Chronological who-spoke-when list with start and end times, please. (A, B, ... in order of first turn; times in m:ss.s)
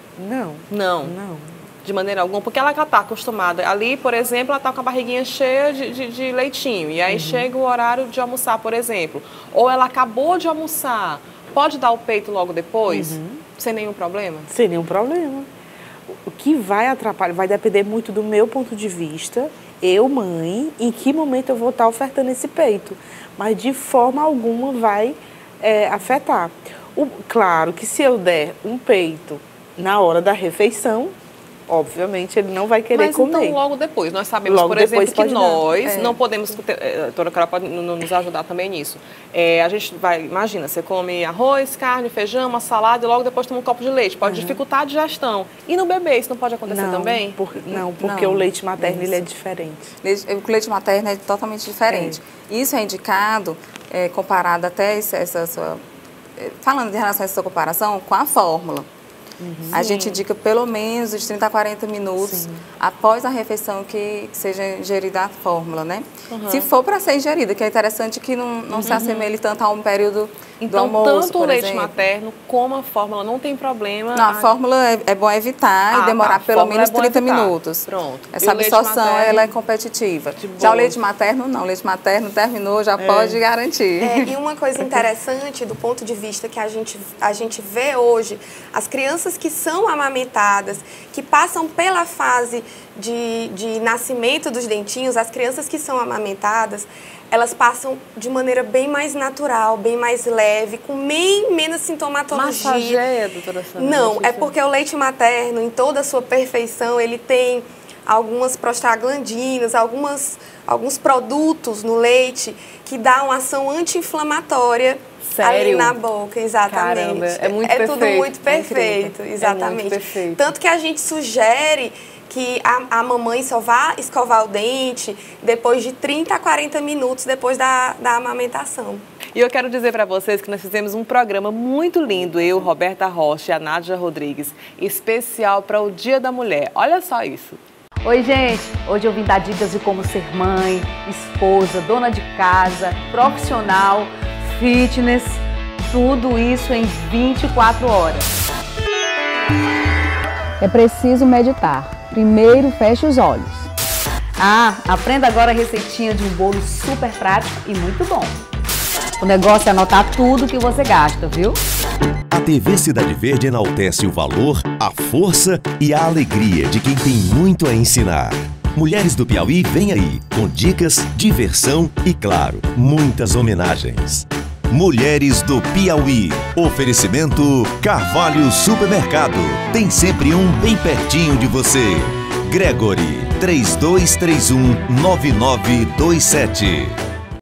0:00.2-0:01.6 A
0:00.7-0:01.2 B
0:01.8-0:14.5 B
0:07.1-0:07.5 A
0:12.9-0:13.4 A
0:14.5-0:15.5 A
0:16.1-0:31.1 A
0:31.7-0:33.6 A
0:32.9-0:47.4 B
0:34.4-0:35.7 A
0:35.8-0:36.2 C
0:44.2-0:44.6 A
0:46.7-0:49.9 A
0:47.8-0:49.2 C
0:50.0-0:55.8 C
0:51.9-0:52.2 A
0:56.4-0:58.9 C
0:59.4-1:00.1 A
0:59.7-1:12.0 C
0:59.7-1:00.0 B
1:02.2-1:02.6 A
1:06.3-1:06.7 B
1:08.7-1:09.0 A
1:08.8-1:09.3 B
1:10.6-1:14.5 B
1:14.2-1:24.3 C
1:15.9-1:19.5 B
1:20.4-1:21.0 B
1:23.0-1:23.4 A
1:24.0-1:43.0 D
1:42.3-1:44.5 B
1:43.8-2:09.0 D
1:55.2-1:56.0 B
1:56.7-2:00.4 B
2:09.4-2:17.6 B
2:18.0-2:28.3 E
2:30.6-2:33.7 E
2:34.4-2:38.4 E
2:39.2-2:41.6 E
2:42.3-3:07.0 F